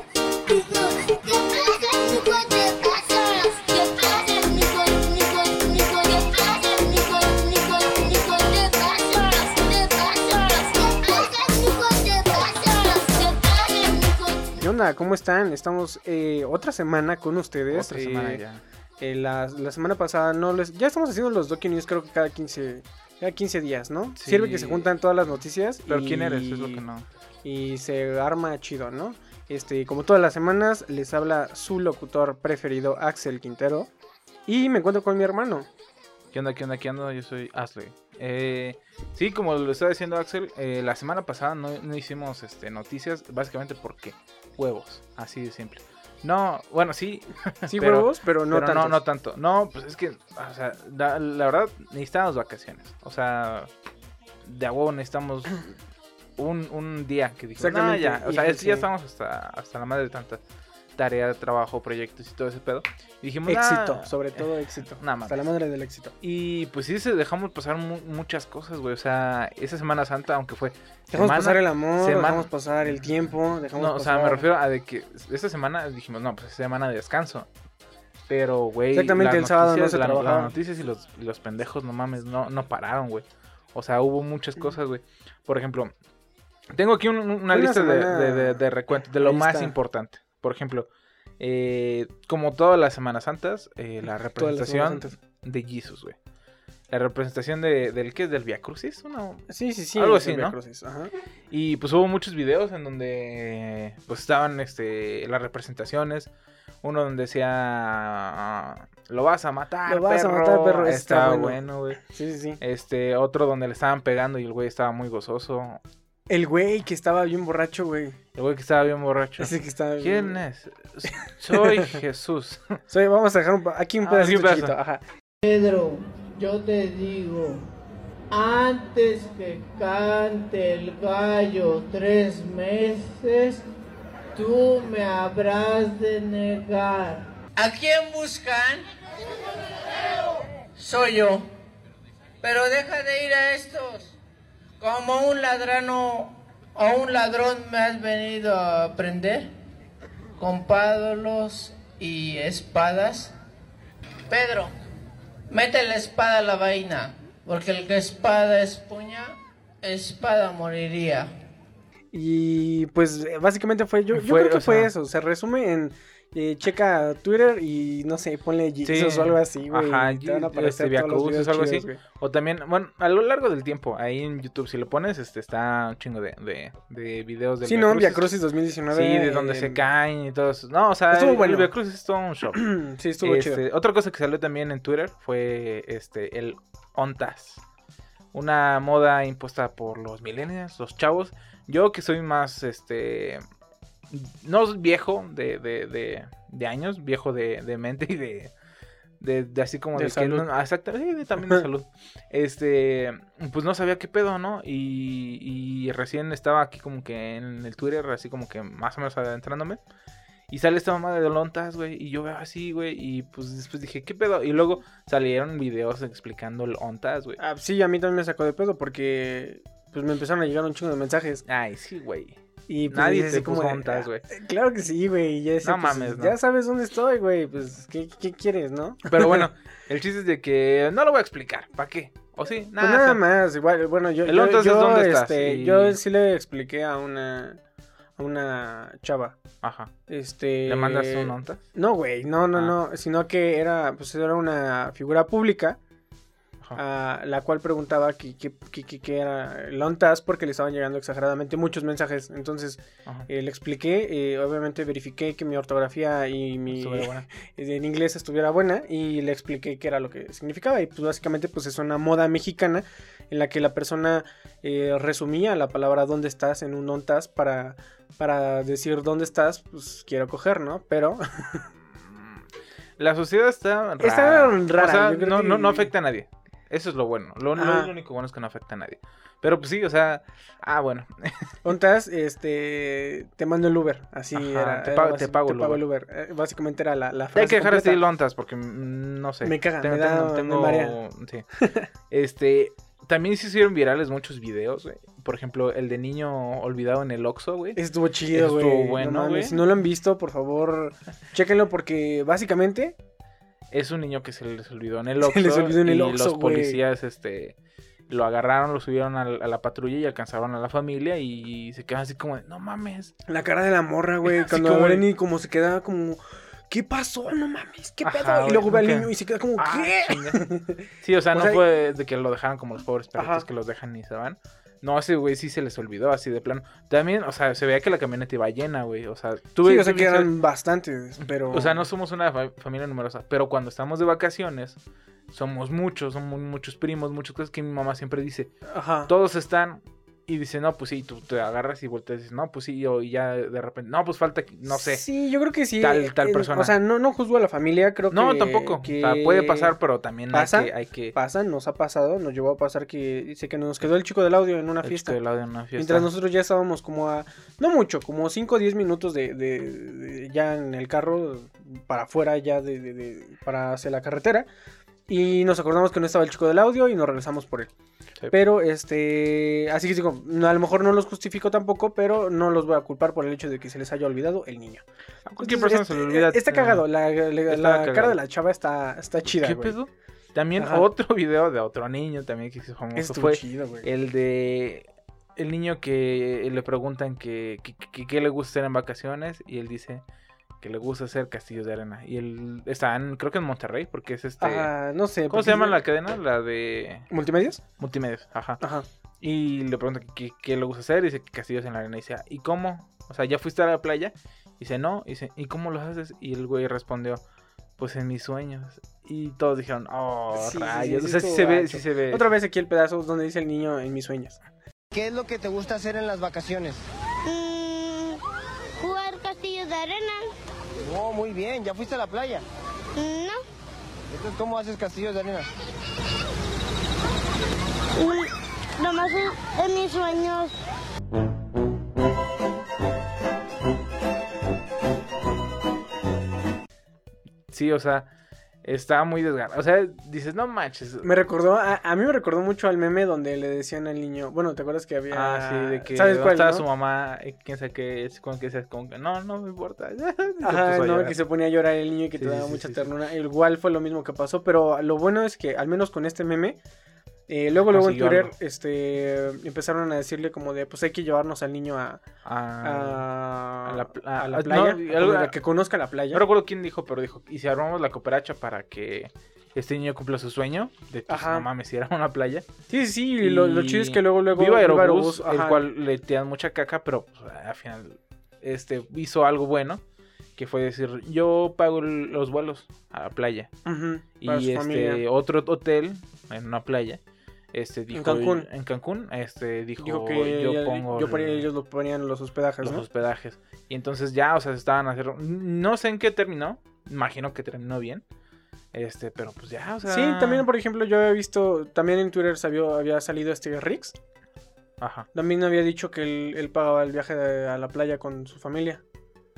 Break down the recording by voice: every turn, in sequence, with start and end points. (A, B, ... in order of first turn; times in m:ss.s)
0:00.5-0:14.6 A
0:14.6-0:18.4 B
0:17.7-0:18.6 C
0:19.0-0:26.8 B
0:24.2-0:24.9 C
0:25.9-0:27.1 C
0:27.4-0:33.9 B
0:34.5-0:35.7 B
0:36.3-0:53.7 C
0:47.7-0:49.0 B
0:54.4-0:55.7 C
0:56.4-1:00.4 C
0:57.6-0:58.9 B
1:01.0-1:04.4 C
1:03.5-1:06.2 B
1:05.0-1:05.5 C
1:06.2-1:12.5 C
1:11.1-1:14.5 B
1:13.8-1:17.5 C
1:18.3-1:25.9 C
1:18.9-1:20.5 B
1:26.7-1:30.9 C
1:27.5-1:29.8 B
1:31.4-1:36.2 C
1:34.4-1:35.2 B
1:36.9-1:40.6 C
1:39.5-1:41.1 B
1:41.5-1:46.3 C
1:46.8-1:52.0 C
1:49.9-1:52.6 B
1:52.6-1:55.8 C
1:56.3-1:58.2 B
1:58.4-2:02.8 C
1:59.4-2:00.4 B
2:01.6-2:01.8 B
2:02.9-2:05.0 B
2:04.0-2:04.8 C
2:05.4-2:07.7 D
2:08.3-2:13.6 D
2:14.4-2:18.9 D
2:20.2-2:21.5 D
2:22.4-2:24.2 D
2:24.8-2:29.5 D
2:30.4-2:33.3 D
2:34.3-2:34.7 D
2:35.5-2:41.3 D
2:42.1-2:52.0 B
2:44.1-2:44.9 C
2:48.8-2:58.3 C
2:57.6-2:59.8 B
2:58.9-3:02.6 C
3:01.1-3:01.7 B
3:02.5-3:03.6 B
3:03.2-3:07.6 C
3:08.3-3:13.4 C
3:14.1-3:18.5 C
3:19.2-3:29.8 C
3:20.0-3:20.5 B
3:30.5-3:37.4 C
3:37.4-3:41.4 B
3:41.5-3:42.4 C
3:42.7-3:49.4 B
3:42.9-3:44.2 C
3:45.6-3:46.4 C
3:49.1-3:53.2 C
3:52.8-3:57.6 B
3:54.2-3:56.0 C
3:58.2-3:59.4 B
3:59.6-3:59.9 C
4:00.1-4:05.8 B
4:00.7-4:01.6 C
4:06.8-4:31.6 B
4:16.7-4:17.2 C
4:31.9-4:32.4 C
4:33.0-4:41.6 C
4:34.0-4:35.9 B
4:37.6-4:37.9 B
4:41.6-4:48.0 B
4:44.3-4:45.8 C
4:47.4-4:51.5 C
4:49.4-4:51.0 B
4:51.6-4:51.9 B
4:52.1-4:57.8 C
4:57.8-5:03.0 B
4:58.3-4:59.6 C
5:03.7-5:07.6 C
5:05.2-5:06.8 B
5:08.1-5:13.1 C
5:13.3-5:21.6 B
5:14.2-5:15.1 C
5:18.0-5:20.4 C
5:21.0-5:30.3 C
5:23.2-5:23.4 B
5:29.6-5:31.8 B
5:31.5-5:34.8 C
5:35.3-5:38.5 C
5:38.7-5:39.1 B
5:39.1-5:45.0 C
5:44.7-5:49.7 B
5:45.8-5:46.7 C
5:48.1-5:51.2 C
5:50.3-5:55.2 B
5:54.8-5:56.1 C
5:55.8-6:04.5 B
6:05.1-6:07.7 B
6:08.3-6:14.8 B
6:15.3-6:16.9 C
6:15.4-6:19.8 B
6:17.5-6:18.2 C
6:19.2-6:30.0 C
6:20.6-6:20.9 B
6:23.0-6:23.9 B
6:30.6-6:34.7 C
6:34.4-6:35.8 B
6:35.3-6:37.1 C
6:37.1-6:37.6 B
6:37.8-6:38.6 C
6:38.6-6:38.9 B
6:39.2-6:47.2 C
6:47.8-6:52.3 C
6:50.4-6:54.4 B
6:54.9-6:56.8 E
6:57.3-6:58.2 A
6:58.8-7:00.3 A
7:00.8-7:02.4 E
7:03.0-7:03.4 A
7:04.1-7:05.5 E
7:08.0-7:10.6 A
7:17.5-7:18.1 C
7:18.6-7:21.1 C
7:21.0-7:26.6 B
7:25.1-7:31.2 C
7:30.4-7:36.6 B
7:32.2-7:33.0 C
7:37.3-7:42.0 B
7:37.6-7:38.3 C
7:42.2-7:43.1 C
7:42.6-7:46.2 B
7:43.6-7:45.4 C
7:46.1-7:52.5 C
7:51.1-7:51.5 B
7:52.7-7:55.7 B
7:53.2-7:59.8 C
8:00.4-8:03.5 C
8:03.7-8:05.0 B
8:04.2-8:07.0 C
8:07.5-8:11.5 C
8:07.9-8:08.5 B
8:09.8-8:12.8 B
8:12.6-8:18.0 C
8:18.7-8:20.5 C
8:19.8-8:24.0 B
8:24.8-8:25.1 C
8:25.1-8:28.8 B